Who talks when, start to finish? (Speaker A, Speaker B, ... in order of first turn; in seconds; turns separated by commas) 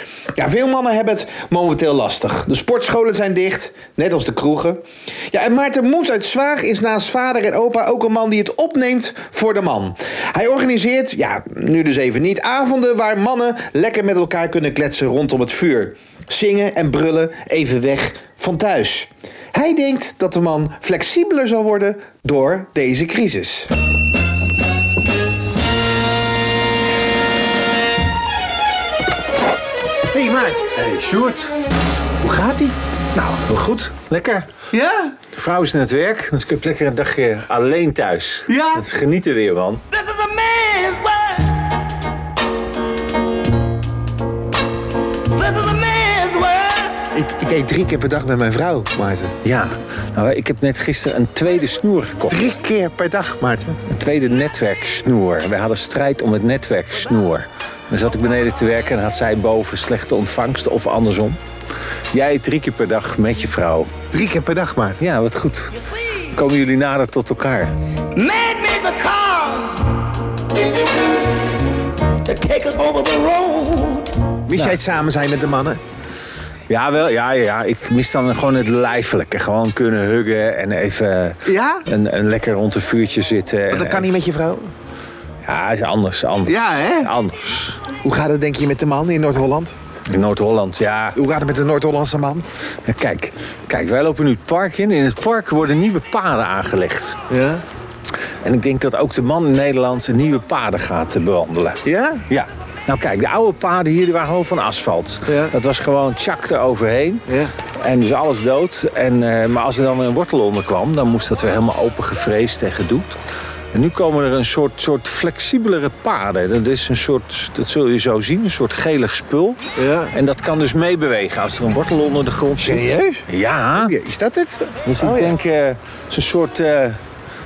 Speaker A: 0.3-23.7, Speaker A: 30.1-30.7, Speaker B: 30.7-31.5, Speaker A: 32.2-32.8, Speaker B: 33.1-34.5, Speaker A: 34.7-35.1, Speaker B: 35.3-39.8, Speaker A: 38.5-38.8, Speaker C: 39.9-41.6, Speaker C: 45.3-47.0, Speaker A: 47.1-49.3, Speaker B: 49.4-52.5, Speaker A: 52.3-53.8, Speaker B: 53.9-61.4, Speaker B: 62.1-63.9, Speaker A: 64.1-65.0, Speaker B: 65.0-67.8, Speaker C: 68.1-70.0, Speaker C: 72.2-74.4, Speaker A: 74.5-75.8, Speaker B: 74.5-74.8, Speaker B: 76.7-84.1, Speaker A: 81.5-81.9, Speaker A: 83.7-84.7, Speaker B: 85.4-87.8, Speaker A: 86.4-87.1, Speaker A: 88.0-89.8, Speaker B: 90.1-91.2, Speaker A: 91.2-92.5, Speaker B: 92.8-97.2, Speaker A: 97.3-97.6, Speaker B: 98.4-113.2, Speaker A: 101.8-102.2, Speaker B: 113.7-123.9, Speaker A: 119.8-120.1, Speaker A: 122.6-123.2, Speaker A: 123.8-125.3, Speaker B: 124.8-127.0